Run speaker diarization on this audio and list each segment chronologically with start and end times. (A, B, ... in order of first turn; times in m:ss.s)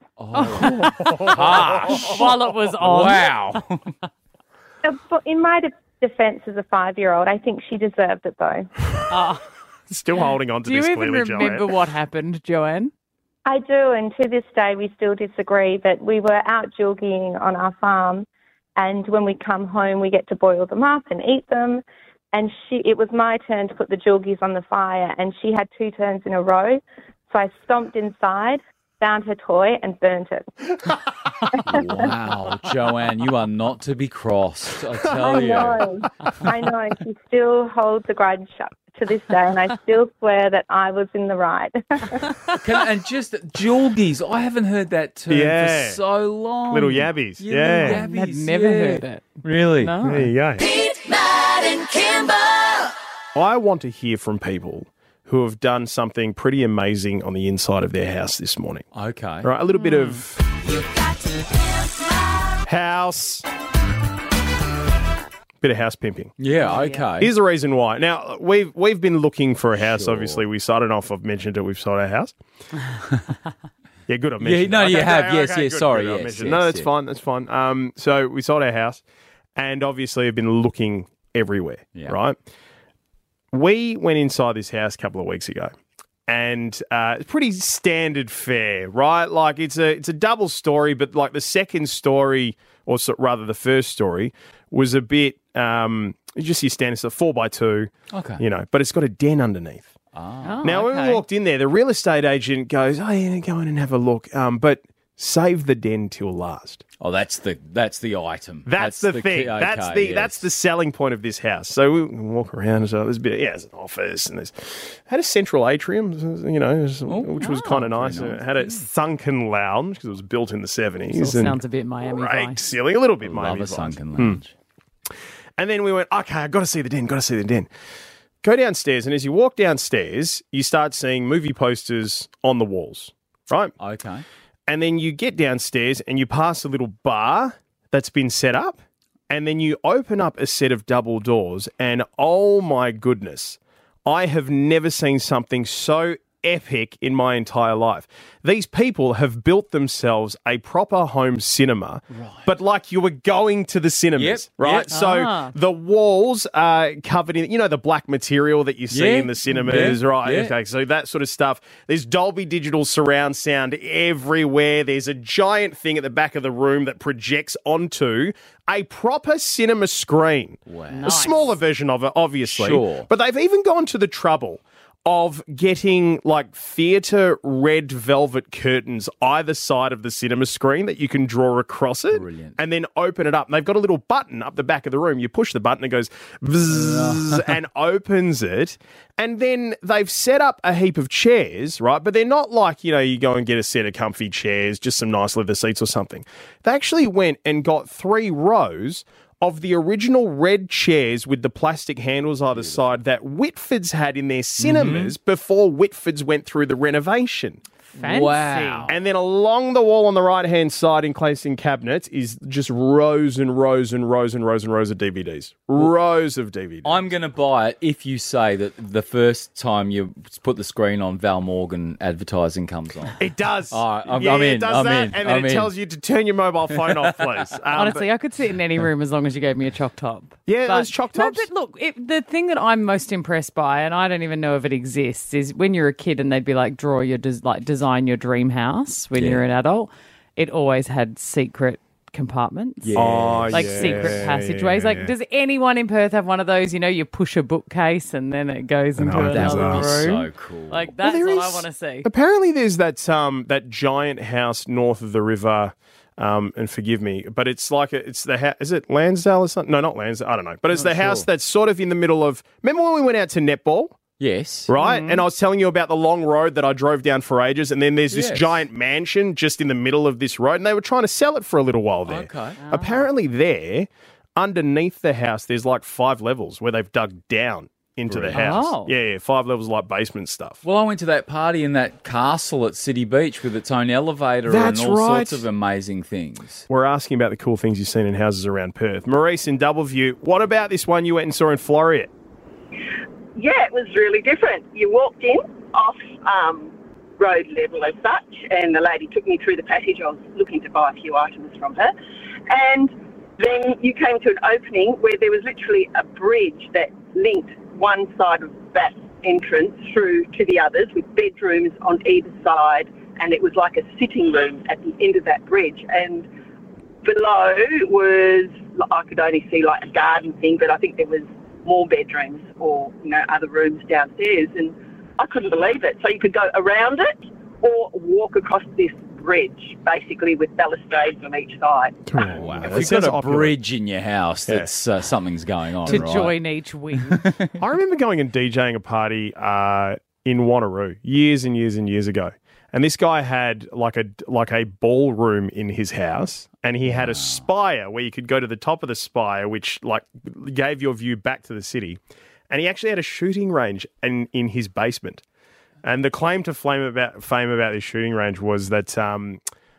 0:00.2-0:03.9 A
0:00.3-0:01.0 B
0:00.6-0:02.2 C
0:01.8-0:03.4 B
0:04.8-0:08.7 D
0:09.1-0:09.4 B
0:09.9-0:11.7 C
0:10.6-0:12.9 B
0:13.4-0:30.5 D
0:31.6-0:35.8 A
0:31.7-0:32.0 D
0:35.2-0:42.3 D
0:42.6-0:50.0 A
0:45.3-0:46.0 C
0:46.7-0:48.0 C
0:47.8-0:50.3 B
0:50.0-0:50.6 C
0:50.6-0:52.9 E
0:53.3-0:58.8 C
0:58.9-0:59.5 A
0:59.4-1:00.4 C
0:59.7-1:00.2 B
1:01.8-1:02.1 E
1:02.6-1:03.4 C
1:05.6-1:06.3 C
1:06.4-1:07.3 A
1:06.6-1:07.0 B
1:07.2-1:12.4 C
1:09.8-1:10.4 A
1:14.1-1:19.0 C
1:14.4-1:16.9 A
1:19.6-1:22.4 C
1:23.5-1:25.7 C
1:26.3-1:39.9 C
1:38.1-1:38.4 A
1:40.1-1:40.6 A
1:40.4-1:41.2 B
1:40.6-1:46.8 C
1:47.0-1:50.4 A
1:48.6-2:04.4 C
1:57.1-1:58.8 A
2:01.1-2:02.6 B
2:03.2-2:04.5 A
2:05.6-2:07.7 C
2:08.4-2:13.7 C
2:13.8-2:14.2 A
2:14.7-2:18.8 C
2:19.3-3:27.6 C
2:32.1-2:32.5 A
2:34.2-2:34.9 A
2:34.9-2:35.5 B
2:38.9-2:40.5 A
2:50.7-2:51.2 A
2:50.9-2:51.6 B
2:52.4-2:53.1 A
3:02.1-3:02.6 A
3:06.7-3:07.5 A
3:22.5-3:23.0 A
3:24.6-3:25.1 A
3:27.9-3:28.9 B
3:28.0-3:28.9 A
3:28.9-3:37.1 C
3:36.8-3:43.2 A
3:43.2-3:48.1 C
3:43.7-3:45.7 A
3:46.7-3:47.5 A
3:47.7-4:12.1 B
3:50.5-3:51.5 C
3:59.2-3:59.4 A
4:02.8-4:04.3 A
4:02.9-4:05.1 C
4:09.0-4:10.0 C
4:09.2-4:10.9 A
4:11.0-4:24.0 C
4:20.7-4:21.3 A
4:24.2-4:24.7 A
4:24.7-4:40.6 C
4:24.8-4:25.2 B
4:28.1-4:28.6 A
4:32.1-4:32.6 A
4:32.6-4:33.0 B
4:38.1-4:38.5 A
4:38.3-4:38.9 B
4:40.6-4:46.6 A
4:44.4-4:45.4 C
4:46.7-4:52.1 C
4:53.4-5:01.9 F
5:02.5-5:16.3 F
5:17.0-5:32.0 F
5:32.1-5:33.5 C
5:32.2-5:36.4 A
5:35.8-5:37.2 B
5:37.1-5:37.5 A
5:37.6-5:55.2 C
5:46.9-5:47.4 A
5:55.8-5:59.4 C